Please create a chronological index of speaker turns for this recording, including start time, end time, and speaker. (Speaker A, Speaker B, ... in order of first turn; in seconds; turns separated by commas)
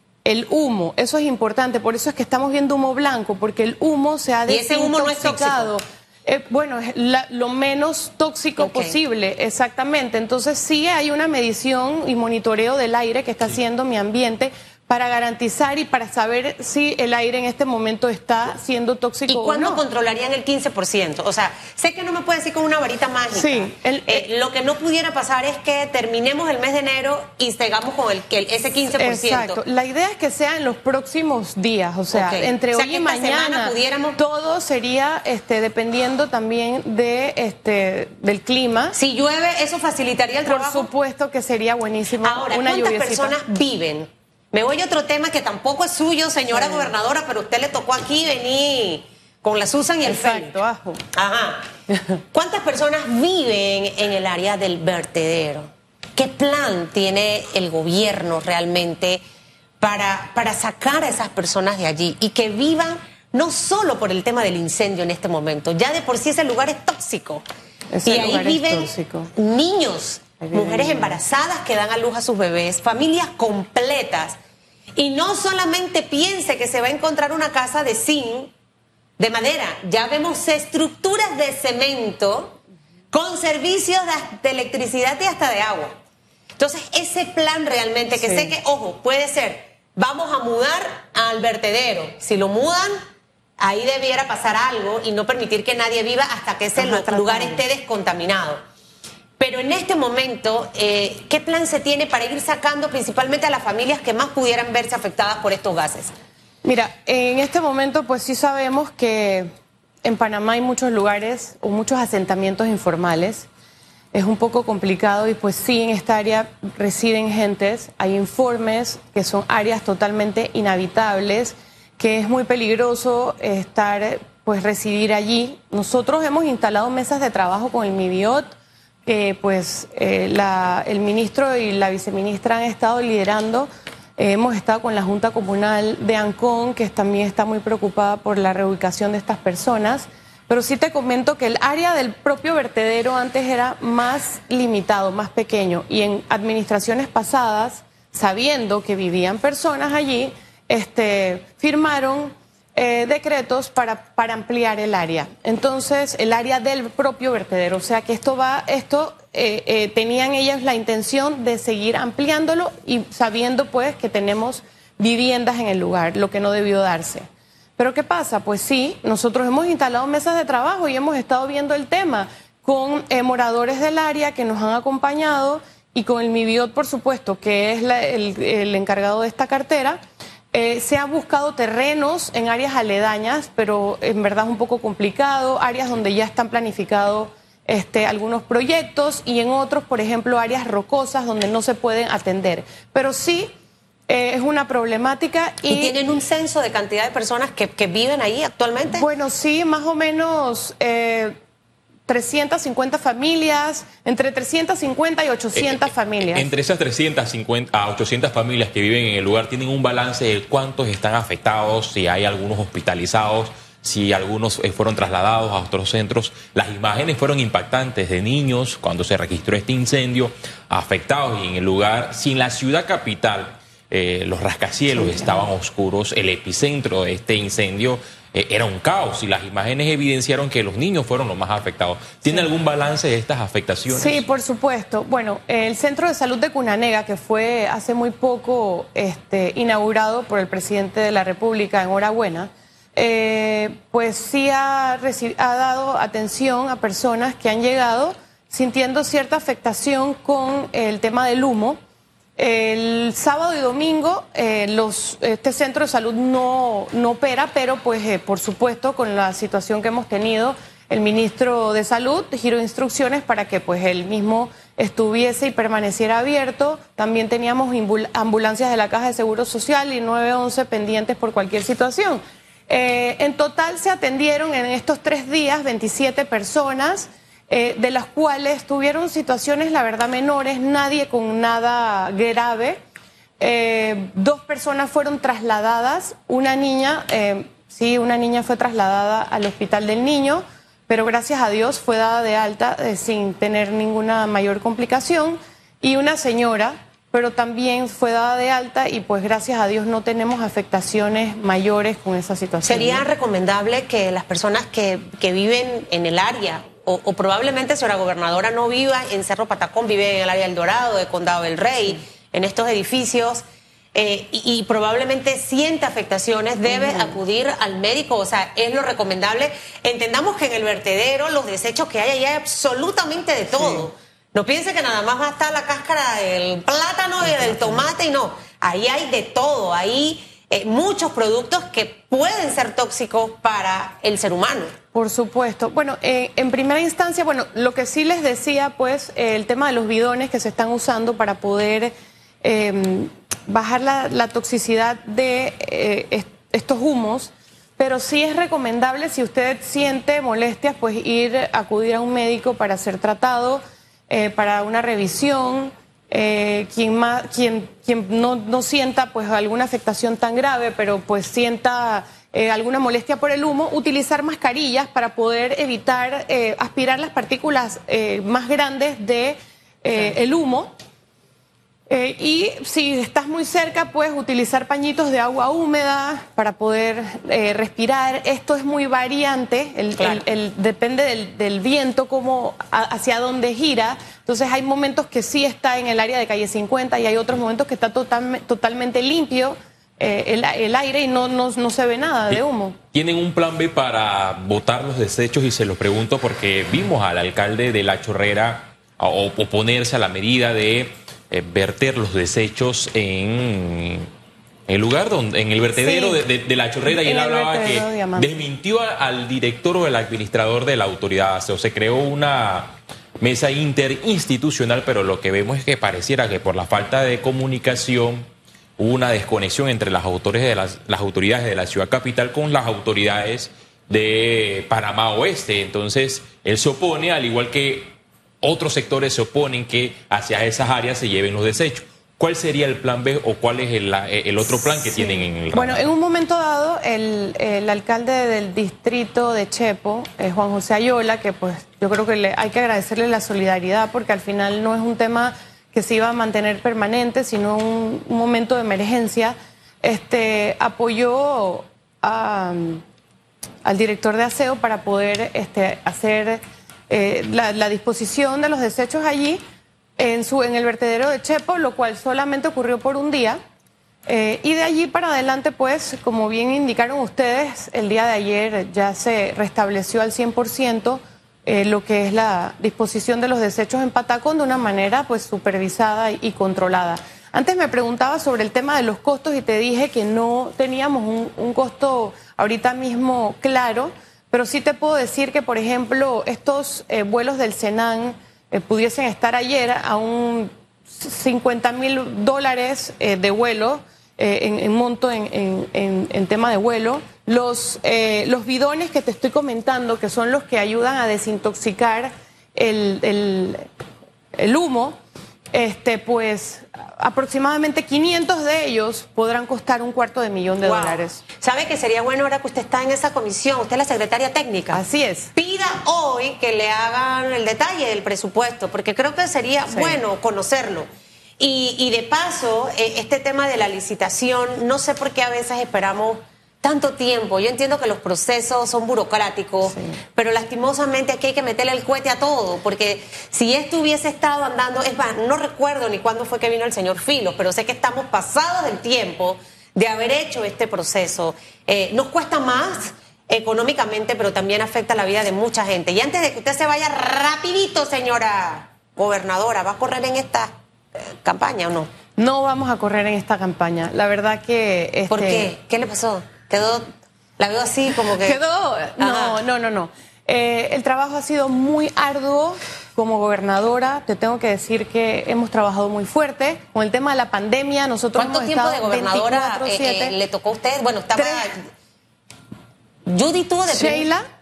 Speaker A: 0.2-19.8, Speaker B: 4.5-5.7, Speaker B: 8.6-9.0, Speaker B: 19.3-29.6, Speaker A: 23.3-24.3, Speaker A: 28.9-39.0, Speaker B: 32.1-34.2, Speaker B: 39.0-40.9, Speaker A: 40.5-43.4, Speaker B: 42.2-50.6, Speaker A: 46.5-46.9, Speaker A: 50.0-51.0, Speaker B: 51.1-51.6, Speaker B: 52.3-59.2, Speaker B: 59.8-67.4, Speaker A: 67.9-69.3, Speaker B: 68.1-74.4, Speaker A: 70.4-71.2, Speaker B: 75.0-78.5, Speaker B: 79.2-82.6, Speaker B: 83.1-86.0, Speaker B: 86.6-93.0, Speaker A: 88.2-88.5, Speaker B: 93.6-98.6, Speaker A: 96.8-97.6, Speaker B: 99.4-106.1, Speaker A: 106.6-109.5, Speaker A: 110.0-113.5, Speaker A: 114.1-180.0, Speaker A: 180.5-193.5, Speaker A: 194.1-195.9, Speaker B: 195.7-199.1, Speaker A: 198.9-201.4, Speaker A: 202.1-206.5, Speaker C: 205.6-234.2, Speaker A: 224.9-225.5, Speaker A: 233.9-251.8, Speaker A: 252.4-282.8, Speaker A: 283.4-303.1, Speaker B: 302.6-334.7, Speaker A: 316.7-317.2, Speaker A: 323.5-323.9, Speaker A: 327.2-327.9, Speaker A: 334.9-370.7, Speaker A: 371.9-392.8, Speaker B: 380.0-380.2, Speaker C: 392.9-404.1, Speaker C: 404.7-418.3, Speaker A: 405.8-406.2, Speaker A: 406.9-408.3, Speaker C: 418.8-435.9, Speaker A: 434.6-452.8, Speaker A: 453.6-459.4, Speaker A: 460.0-463.4, Speaker A: 464.1-503.7, Speaker A: 504.4-505.0, Speaker A: 505.5-511.2, Speaker B: 510.6-514.8, Speaker A: 514.7-515.3, Speaker B: 515.4-520.9, Speaker A: 519.7-520.0, Speaker B: 521.4-551.9, Speaker A: 529.7-530.0, Speaker A: 552.2-555.5, Speaker B: 555.1-556.9, Speaker B: 557.4-558.4, Speaker A: 558.2-570.1, Speaker B: 559.0-559.4, Speaker B: 568.1-571.7, Speaker A: 571.2-571.5, Speaker B: 573.1-574.1, Speaker A: 573.7-574.2